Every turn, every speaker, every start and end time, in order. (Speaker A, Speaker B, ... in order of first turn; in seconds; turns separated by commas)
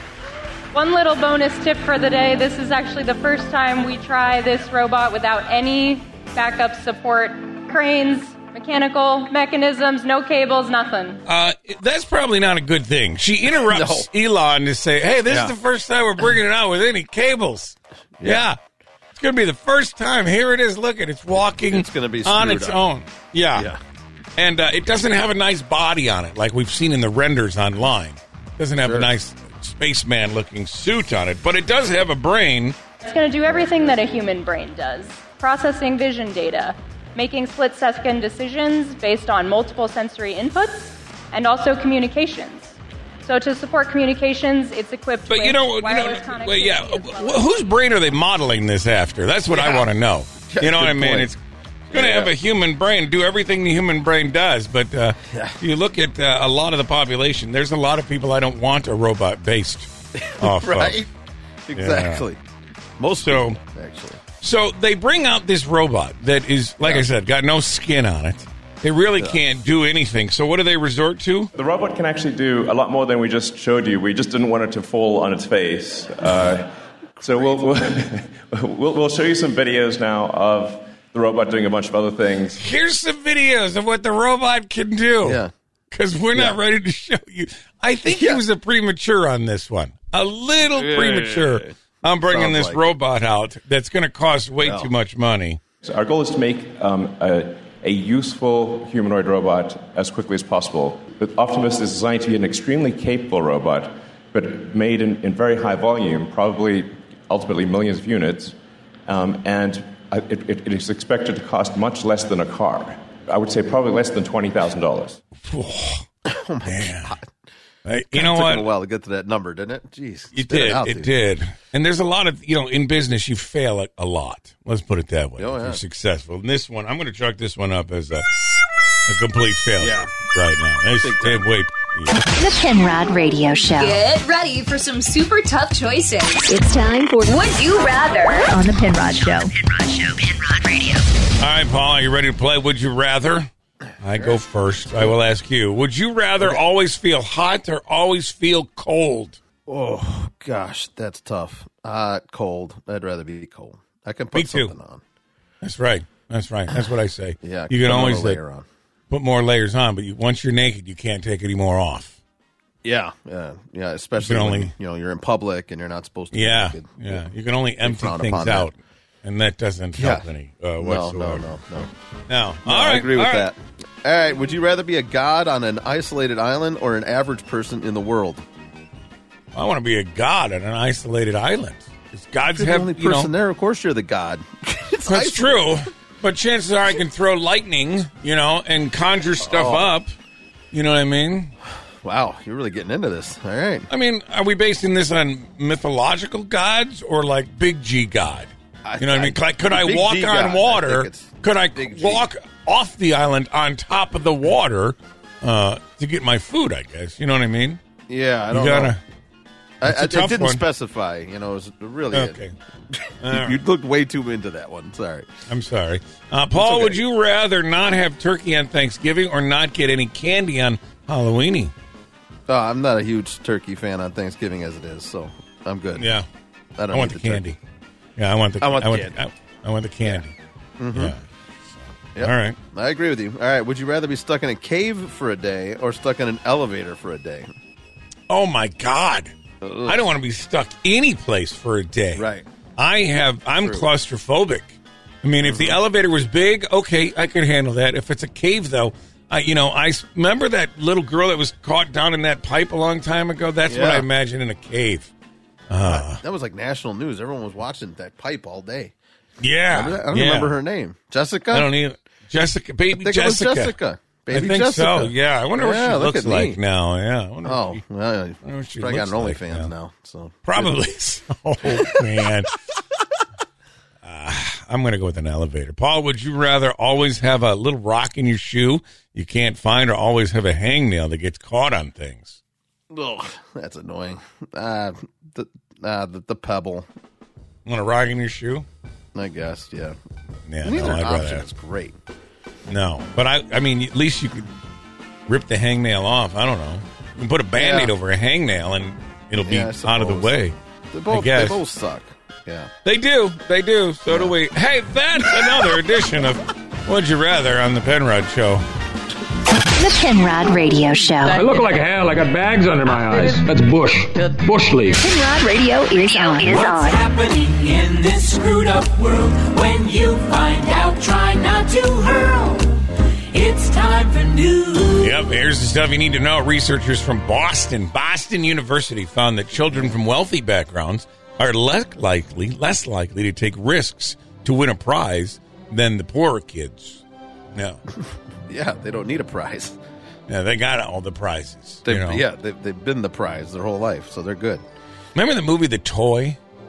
Speaker A: 0.7-11.2, Speaker B: 11.2-18.6, Speaker C: 13.5-14.1, Speaker C: 15.3-15.5, Speaker C: 18.2-18.4, Speaker B: 19.1-23.7, Speaker C: 21.3-22.8, Speaker B: 24.4-32.8, Speaker C: 28.8-29.1, Speaker A: 33.0-47.7, Speaker C: 33.5-34.0, Speaker B: 45.3-51.4, Speaker C: 49.5-49.9, Speaker C: 50.5-51.3, Speaker C: 51.9-52.3, Speaker B: 51.9-61.0, Speaker C: 55.3-55.5, Speaker C: 60.2-61.1, Speaker C: 61.7-62.4, Speaker B: 61.7-62.2, Speaker C: 63.0-64.2, Speaker B: 63.2-63.6, Speaker B: 64.4-71.5, Speaker D: 71.5-76.7, Speaker D: 77.2-82.6, Speaker B: 82.6-95.6, Speaker C: 85.2-85.5, Speaker C: 86.3-86.6, Speaker C: 88.1-88.4, Speaker C: 90.7-91.6, Speaker C: 92.2-92.9, Speaker C: 94.6-94.9, Speaker D: 95.8-108.5, Speaker D: 109.1-115.2, Speaker B: 115.5-116.0, Speaker C: 116.2-117.3, Speaker B: 116.6-117.1, Speaker B: 117.8-118.7, Speaker C: 118.1-121.1, Speaker B: 120.3-128.2, Speaker C: 125.4-125.8, Speaker B: 129.1-132.2, Speaker C: 129.8-130.1, Speaker C: 131.0-131.4, Speaker E: 132.3-134.0, Speaker F: 133.7-136.6, Speaker E: 136.5-137.3, Speaker F: 137.2-138.5, Speaker E: 138.5-139.5, Speaker F: 139.6-141.1, Speaker B: 141.4-143.5, Speaker B: 144.0-149.4, Speaker C: 149.7-155.0, Speaker B: 154.3-154.7, Speaker B: 155.6-158.4, Speaker C: 157.4-158.7, Speaker B: 159.1-162.2, Speaker C: 162.8-167.3, Speaker B: 164.2-164.7, Speaker B: 166.3-171.5, Speaker C: 167.8-168.7, Speaker C: 169.9-170.2, Speaker C: 170.8-171.9, Speaker B: 172.3-173.5, Speaker C: 172.7-178.4, Speaker B: 179.5-183.3, Speaker C: 182.5-185.8, Speaker B: 185.1-190.1, Speaker C: 189.4-189.9, Speaker B: 190.7-191.5, Speaker C: 192.0-193.9, Speaker B: 193.9-207.8, Speaker C: 198.8-202.3, Speaker C: 208.1-208.9, Speaker B: 208.5-209.0, Speaker C: 209.8-212.4, Speaker B: 209.8-210.6, Speaker B: 212.1-212.5, Speaker B: 213.2-213.6, Speaker C: 213.3-215.3, Speaker B: 215.5-221.7, Speaker C: 216.5-217.0, Speaker C: 222.5-226.1, Speaker B: 226.0-226.2, Speaker C: 226.8-227.5, Speaker B: 226.9-227.6, Speaker B: 228.2-230.3, Speaker C: 228.6-229.2, Speaker C: 230.8-231.1, Speaker B: 230.9-232.6, Speaker C: 232.1-237.5, Speaker B: 238.3-239.3, Speaker C: 239.6-240.1, Speaker B: 239.8-242.2, Speaker C: 242.2-242.4, Speaker B: 242.8-255.1, Speaker C: 243.6-243.9, Speaker C: 245.4-245.8, Speaker C: 253.7-254.1, Speaker B: 255.7-256.2, Speaker C: 255.9-258.9, Speaker B: 259.4-260.5, Speaker C: 259.7-261.7, Speaker B: 261.5-263.7, Speaker C: 262.9-266.6, Speaker B: 264.3-267.8, Speaker C: 267.4-270.7, Speaker B: 268.4-269.7, Speaker B: 270.4-272.5, Speaker B: 274.0-282.4, Speaker C: 282.9-286.9, Speaker B: 287.6-288.6, Speaker C: 289.1-289.9, Speaker B: 290.5-291.4, Speaker C: 290.6-291.9, Speaker B: 292.7-294.5, Speaker B: 295.3-300.5, Speaker C: 297.5-297.9, Speaker C: 299.4-300.4, Speaker C: 300.9-302.7, Speaker B: 301.1-301.6, Speaker B: 302.8-308.6, Speaker C: 304.1-304.3, Speaker E: 309.6-311.4, Speaker G: 311.2-315.0, Speaker E: 315.0-317.0, Speaker H: 316.4-322.8, Speaker H: 323.3-325.1, Speaker B: 325.0-337.0, Speaker C: 329.6-329.9, Speaker C: 338.5-339.8, Speaker B: 340.3-342.2, Speaker C: 341.9-344.6, Speaker B: 345.1-346.4